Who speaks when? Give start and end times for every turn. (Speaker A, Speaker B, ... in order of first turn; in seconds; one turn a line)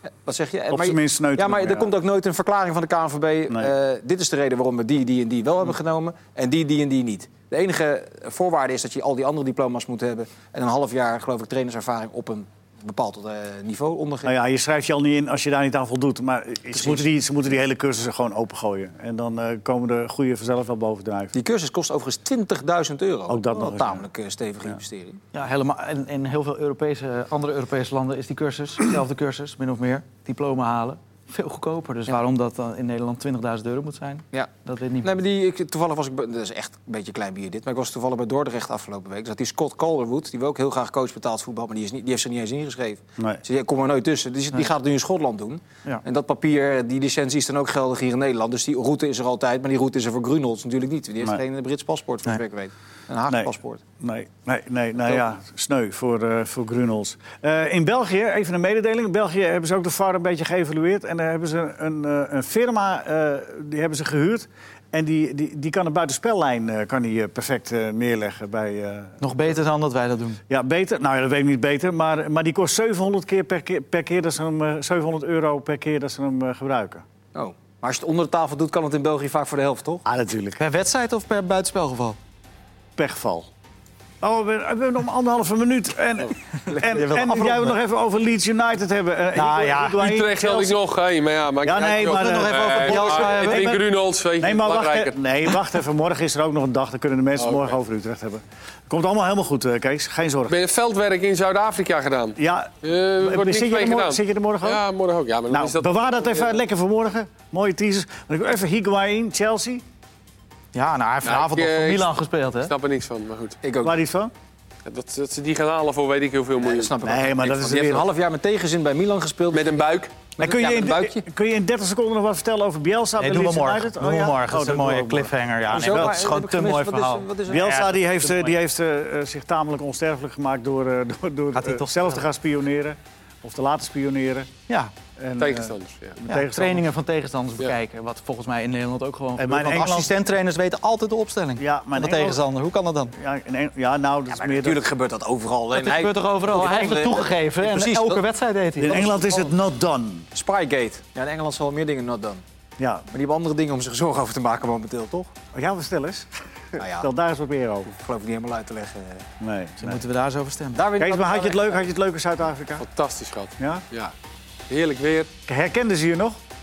Speaker A: 0.2-14.3
Speaker B: 0.7-1.9
Speaker B: 3.5-3.7
Speaker B: 14.2-21.4
Speaker A: 16.7-17.1
Speaker A: 21.3-25.2
Speaker B: 23.3-24.1
Speaker C: 25.3-35.1
Speaker A: 35.0-53.8
Speaker B: 53.3-69.4
Speaker C: 69.2-70.4
Speaker B: 70.5-77.0
Speaker A: 77.3-80.0
Speaker B: 80.0-80.6
Speaker C: 80.6-82.2
Speaker B: 83.0-83.5
Speaker B: 84.2-90.8
Speaker C: 86.6-87.8
Speaker C: 89.3-89.9
Speaker D: 89.7-95.2
Speaker B: 91.6-93.8
Speaker C: 91.9-93.8
Speaker B: 94.4-100.6
Speaker D: 97.4-97.7
Speaker D: 100.5-106.5
Speaker B: 102.3-104.8
Speaker B: 105.5-109.8
Speaker C: 110.7-112.7
Speaker D: 111.2-112.1
Speaker D: 112.6-113.6
Speaker A: 113.6-114.0
Speaker B: 113.8-114.3
Speaker D: 114.8-116.9
Speaker A: 116.6-119.8
Speaker B: 117.0-118.1
Speaker D: 119.5-120.1
Speaker A: 120.4-121.2
Speaker B: 120.4-126.3
Speaker C: 123.2-127.9
Speaker A: 125.7-128.5
Speaker B: 127.5-134.5
Speaker C: 131.5-132.2
Speaker C: 134.7-134.9
Speaker B: 135.2-136.8
Speaker D: 135.4-136.2
Speaker C: 136.3-143.1
Speaker B: 139.4-140.1
Speaker B: 141.6-142.4
Speaker B: 143.1-144.8
Speaker A: 144.3-148.2
Speaker C: 145.7-149.1
Speaker B: 148.8-150.3
Speaker A: 148.8-149.5
Speaker A: 150.3-152.4
Speaker B: 152.8-153.1
Speaker A: 153.1-155.3
Speaker B: 155.5-157.9
Speaker A: 156.8-157.1
Speaker A: 157.9-159.3
Speaker B: 159.4-160.0
Speaker C: 159.8-160.8
Speaker A: 160.7-161.8
Speaker B: 161.0-162.8
Speaker D: 162.8-164.1
Speaker B: 163.6-163.8
Speaker D: 164.7-165.3
Speaker B: 165.4-166.4